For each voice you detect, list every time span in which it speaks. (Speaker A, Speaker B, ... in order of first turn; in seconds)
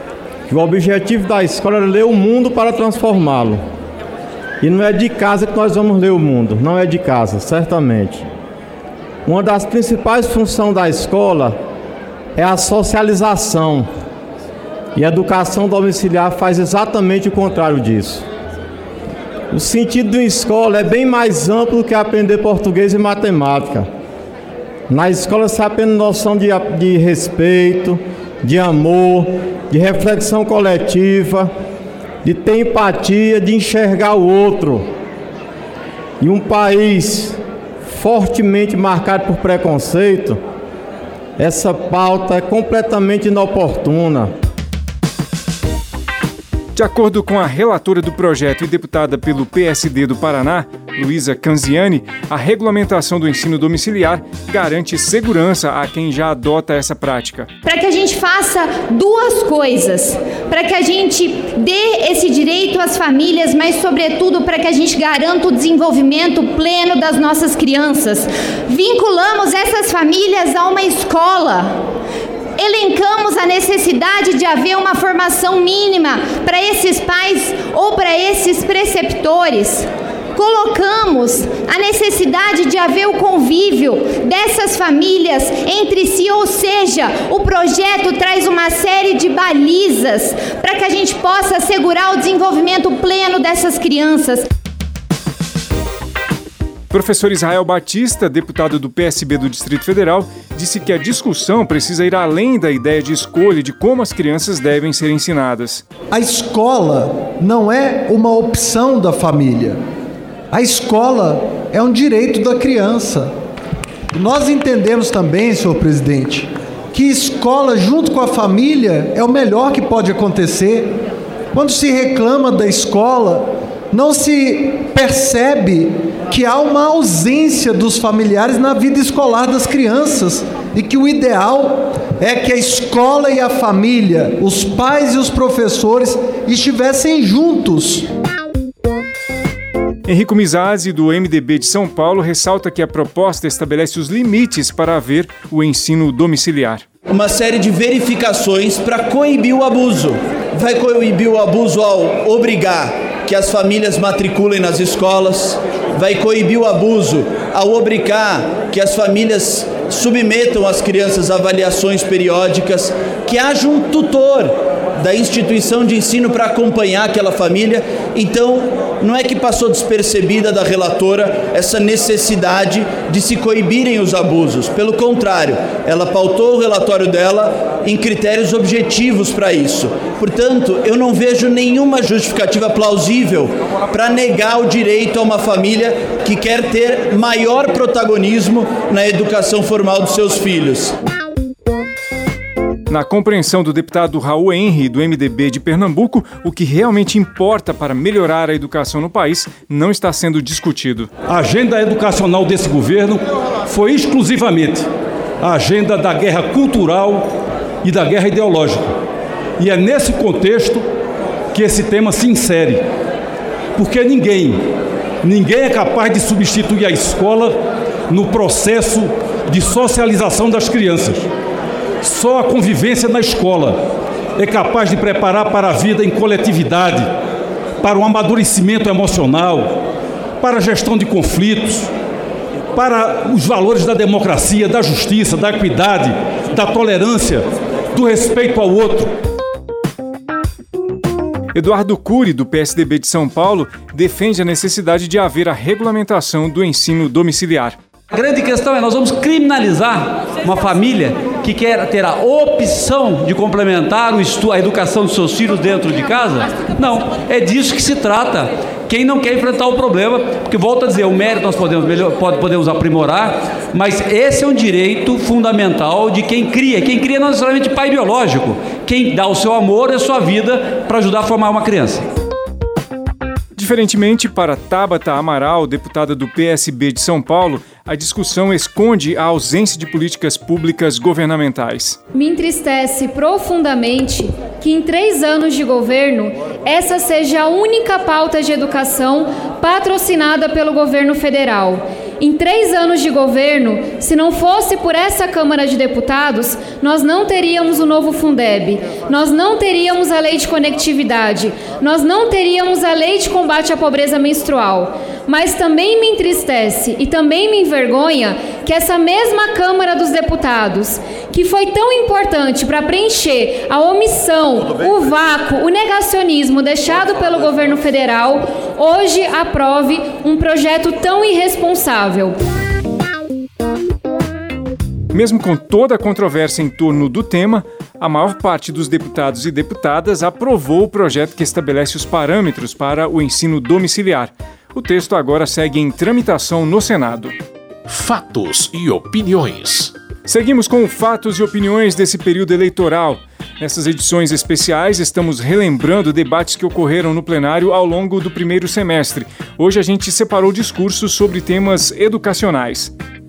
Speaker A: 0.5-3.6, 4.6-8.3, 9.3-11.6, 12.4-13.9, 15.0-18.2, 19.5-23.9, 24.9-31.5, 32.2-34.9, 36.2-40.4, 41.4-44.3
Speaker B: 46.8-57.5, 96.9-105.8, 140.1-146.8, 192.9-201.1, 241.6-247.8, 273.6-282.0, 325.1-337.4, 340.3-352.9
Speaker C: 57.6-71.8, 72.6-94.5
Speaker D: 106.3-109.8, 110.6-113.3, 114.2-116.4, 117.0-120.8, 121.6-123.4, 124.0-138.0
Speaker E: 147.1-190.9
Speaker F: 201.3-204.9, 205.4-207.3, 207.8-208.9, 209.6-210.8, 211.5-212.8, 213.8-214.6, 215.2-217.6, 218.1-221.3, 222.0-223.8, 224.4-227.1, 227.8-229.8, 230.4-231.9, 232.7-239.1
Speaker G: 248.1-272.1
Speaker H: 282.1-322.4
Speaker I: 337.9-339.9